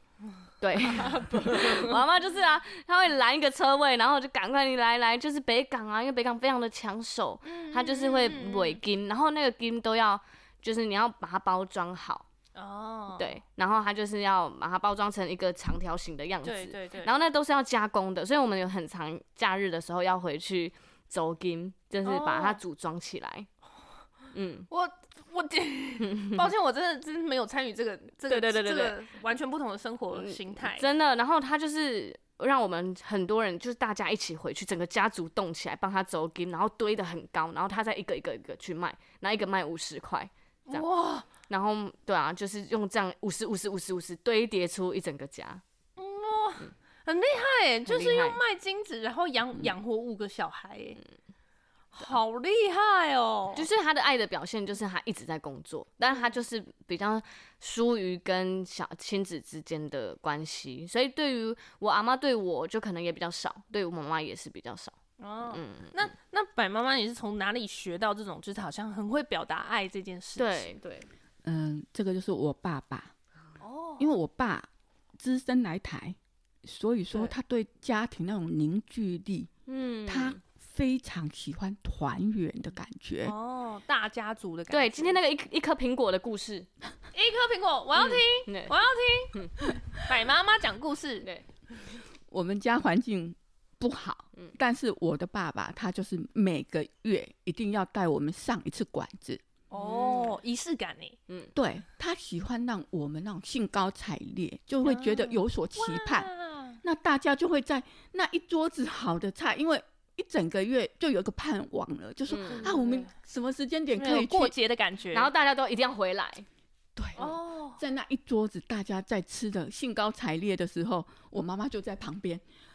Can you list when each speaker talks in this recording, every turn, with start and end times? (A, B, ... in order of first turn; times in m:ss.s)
0:00.6-0:12.2 A
0:00.8-0:02.0 B
0:07.4-0:08.8 B
0:12.5-0:13.4 B
0:13.2-0:23.5 A
0:16.4-0:17.1 B
0:22.0-0:22.6 B
0:24.3-0:24.7 A
0:24.7-0:30.9 B
0:26.0-0:26.4 A
0:28.3-0:29.0 A
0:30.1-0:40.8 A
0:40.7-0:41.2 B
0:41.5-0:45.6 A
0:46.0-0:51.0 B
0:47.9-0:48.4 A
0:51.9-0:53.6 B
0:53.5-1:04.9 A
1:05.2-1:10.7 B
1:05.5-1:06.1 A
1:10.4-1:11.1 A
1:11.4-1:13.1 C
1:13.6-1:14.1 B
1:14.0-1:14.7 C
1:15.2-1:19.5 C
1:19.7-1:20.4 A
1:20.1-1:23.3 C
1:23.2-1:25.2 B
1:24.7-1:26.7 A
1:27.1-1:31.2 B
1:27.9-1:28.7 A
1:32.3-1:39.4 C
1:39.7-1:41.2 B
1:39.7-1:40.3 A
1:41.5-1:46.3 C
1:44.8-1:46.8 B
1:46.8-1:54.5 C
1:52.3-1:52.6 A
1:52.4-1:53.1 B
1:53.9-1:55.3 B
1:55.1-1:56.4 A
1:57.0-2:02.4 C
1:57.2-1:57.8 B